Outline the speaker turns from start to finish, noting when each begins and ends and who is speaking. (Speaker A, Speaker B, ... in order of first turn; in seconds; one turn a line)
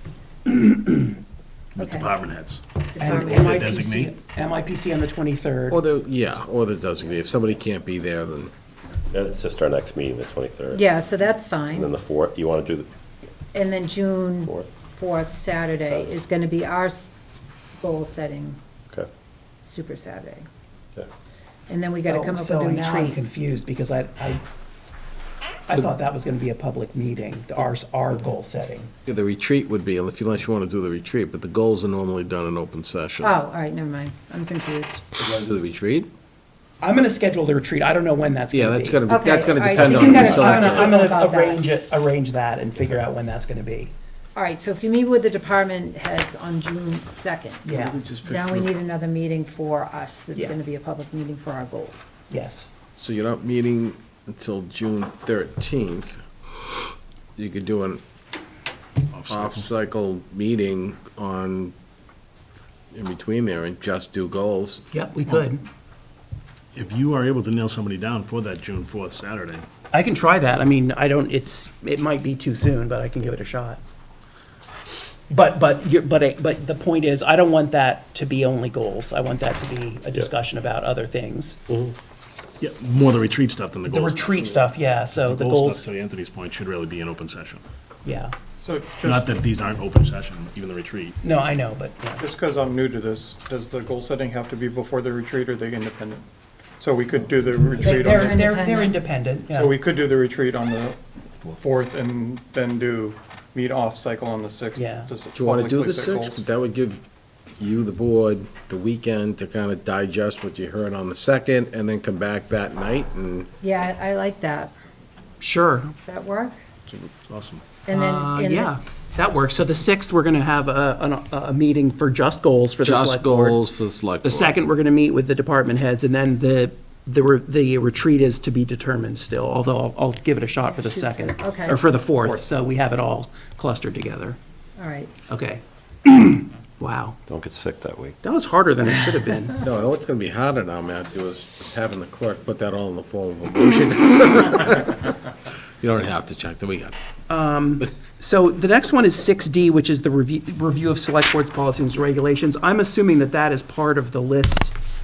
Speaker A: 0.5-1.1
Speaker B: 1.8-4.1
Speaker C: 1.8-2.1
Speaker C: 2.9-3.8
Speaker A: 3.0-5.8
Speaker D: 5.7-8.5
Speaker E: 9.1-10.8
Speaker C: 10.7-12.0
Speaker E: 11.7-12.9
Speaker C: 13.5-17.1
Speaker C: 17.8-18.6
Speaker C: 19.6-20.5
Speaker C: 21.7-23.2
Speaker A: 22.1-24.4
Speaker A: 25.7-28.9
Speaker D: 29.1-33.3
Speaker C: 33.2-35.0
Speaker D: 35.2-36.1
Speaker A: 36.8-39.0
Speaker D: 38.5-40.9
Speaker C: 39.1-41.6
Speaker A: 39.7-43.9
Speaker C: 44.4-47.6
Speaker A: 47.6-48.0
Speaker D: 47.8-48.7
Speaker C: 48.2-52.1
Speaker A: 52.3-52.7
Speaker D: 53.0-56.2
Speaker D: 57.4-58.0
Speaker B: 59.1-59.7
Speaker D: 59.3-61.7
Speaker D: 62.9-64.8
Speaker A: 64.9-65.6
Speaker B: 66.8-69.7
Speaker A: 69.9-73.8
Speaker A: 75.3-81.6
Speaker B: 82.6-87.6
Speaker A: 83.9-85.8
Speaker A: 88.0-88.3
Speaker F: 88.6-89.3
Speaker B: 89.0-91.2
Speaker A: 91.2-92.2
Speaker F: 92.2-96.2
Speaker F: 96.8-98.7
Speaker C: 97.8-98.9
Speaker A: 97.8-99.8
Speaker F: 99.5-101.0
Speaker F: 101.6-106.4
Speaker A: 104.8-105.1
Speaker D: 105.3-107.0
Speaker D: 107.6-113.5
Speaker C: 113.6-114.7
Speaker A: 115.4-115.9
Speaker C: 116.0-116.6
Speaker B: 116.9-117.6
Speaker C: 117.9-118.7
Speaker A: 117.9-123.6
Speaker D: 122.8-124.6
Speaker A: 124.2-134.4
Speaker C: 130.7-131.8
Speaker C: 134.8-135.1
Speaker A: 135.3-137.2
Speaker E: 137.3-138.2
Speaker A: 138.2-139.6
Speaker D: 139.6-145.1
Speaker D: 145.8-147.0
Speaker A: 147.3-154.8